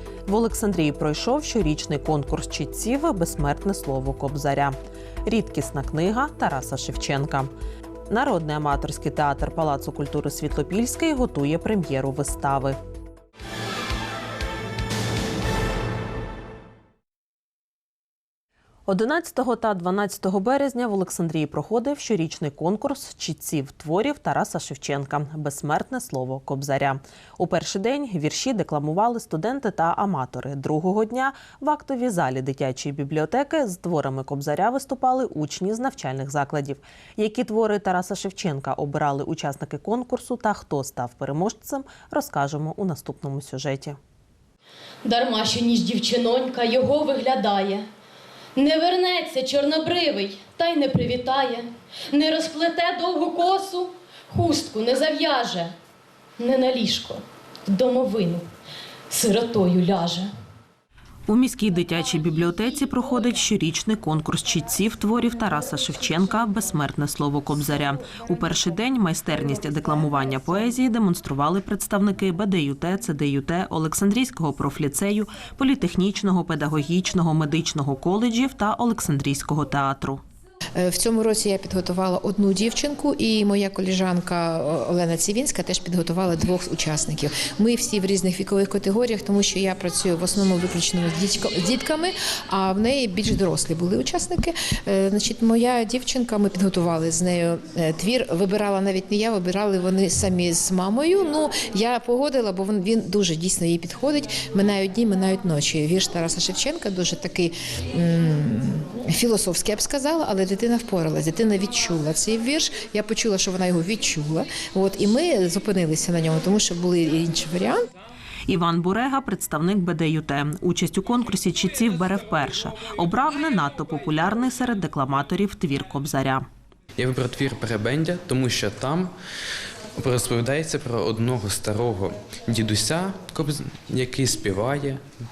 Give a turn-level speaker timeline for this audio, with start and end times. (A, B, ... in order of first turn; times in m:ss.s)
0:00.3-0:07.5 A
0:08.1-0:12.8 A
0:18.9-0:44.0 A
0:45.0-0:47.9 B
0:48.6-0:55.7 B
0:56.4-0:58.5 B
0:59.1-1:00.3 B
1:01.3-1:20.2 A
1:20.8-1:57.8 C
1:58.5-2:06.4 A
2:07.0-2:09.1 D
2:10.0-2:15.0 D